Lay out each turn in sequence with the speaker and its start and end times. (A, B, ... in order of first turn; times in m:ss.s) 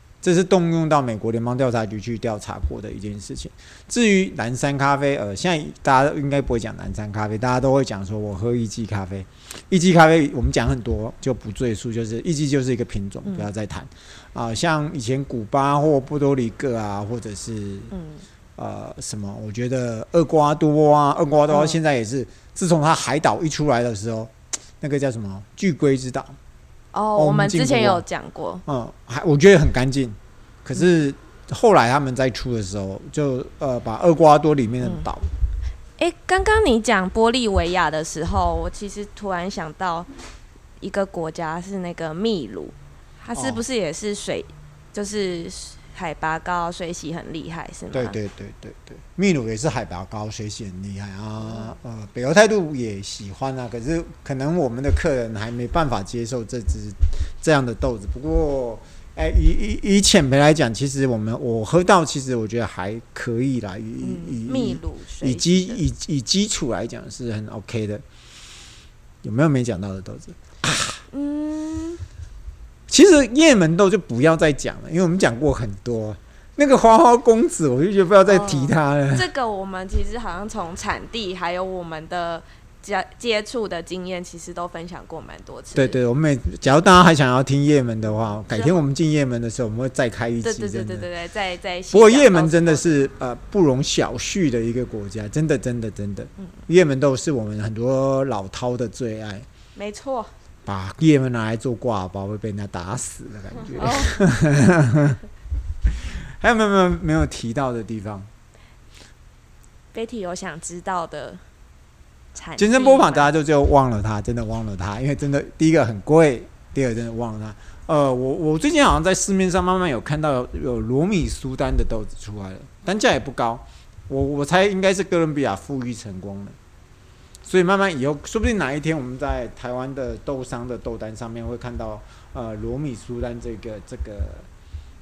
0:00.2-0:17.9 A
0:17.9-0:18.2 B
0:18.6-0:26.4 A
0:21.5-0:21.8 B
0:26.9-0:28.6 B
0:27.1-0:28.0 A
0:28.6-0:35.3 A
0:36.0-0:40.1 B
0:40.8-0:48.2 B
0:43.3-0:43.6 A
0:47.9-1:08.0 A
0:51.4-0:51.7 B
1:04.0-1:05.8 B
1:09.2-1:11.0 A
1:11.1-1:12.0 B
1:12.9-1:19.3 A
1:18.2-1:26.0 B
1:25.7-1:31.1 A
1:28.3-1:28.8 B
1:30.4-1:33.0 B
1:31.9-1:39.5 A
1:39.7-1:40.3 B
1:40.6-1:45.2 A
1:43.8-1:44.2 B
1:46.1-1:48.3 A
1:49.9-1:51.4 B
1:52.3-1:53.3 B
1:52.6-2:06.6 A
2:07.4-2:14.5 A